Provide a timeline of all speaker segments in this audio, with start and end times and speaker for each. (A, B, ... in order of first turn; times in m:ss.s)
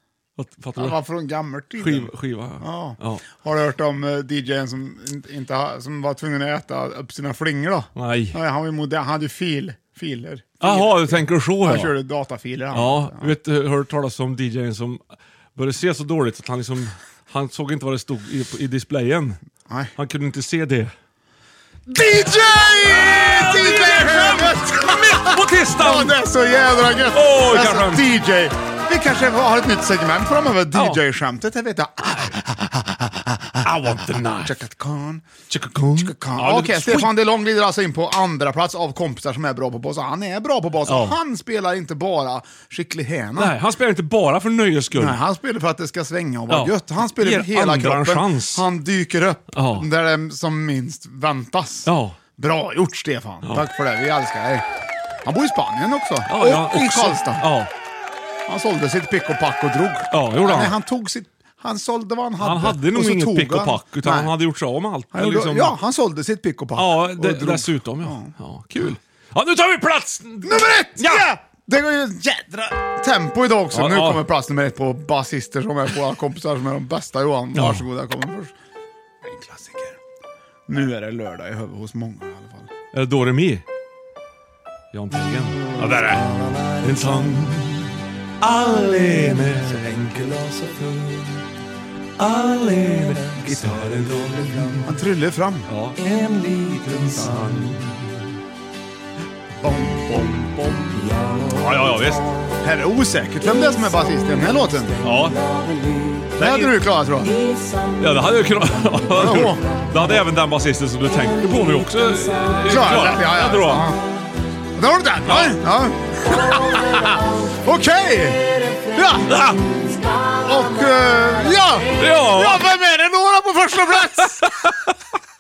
0:00.4-0:01.0 A
0:00.8-0:13.4 B
0:01.8-0:03.3 A
0:08.0-0:08.4 A
0:10.6-0:11.9 A
0:12.7-0:19.4 A
0:19.7-0:19.9 B
0:20.0-0:20.9 A
0:21.9-0:35.2 B
0:22.3-0:26.2 A
0:27.1-0:28.1 A
0:30.8-0:31.0 A
0:32.0-0:32.3 A
0:33.6-0:34.6 A
0:35.5-0:37.1 A
0:35.9-0:43.6 B
0:40.9-0:41.2 A
0:43.4-0:45.2 A
0:44.9-0:54.7 B
0:46.5-0:48.7 A
0:49.5-0:49.9 A
0:51.8-0:52.2 A
0:55.2-0:57.4 B
0:56.3-0:57.7 A
0:58.5-1:04.3 B
1:00.1-1:00.8 A
1:02.4-1:05.8 A
1:05.1-1:08.3 B
1:06.8-1:11.3 A
1:10.4-1:18.6 B
1:13.7-1:14.2 A
1:17.5-1:17.9 A
1:19.2-1:20.0 B
1:20.7-1:22.7 B
1:22.9-1:23.6 A
1:24.9-1:27.9 A
1:25.8-1:26.7 B
1:28.4-1:31.3 A
1:32.2-1:34.9 A
1:34.8-1:35.7 B
1:35.7-1:38.0 A
1:39.6-1:41.5 B
1:41.6-1:42.3 A
1:42.6-1:45.0 B
1:45.0-1:45.4 A
1:46.4-1:46.8 A
1:46.4-1:47.4 B
1:48.0-1:53.9 A
1:49.1-1:49.6 B
1:52.6-1:54.0 B
1:54.8-1:59.4 B
1:55.2-1:55.6 A
1:59.3-1:59.8 A
2:00.2-2:04.7 B
2:01.9-2:02.7 A
2:04.4-2:04.8 A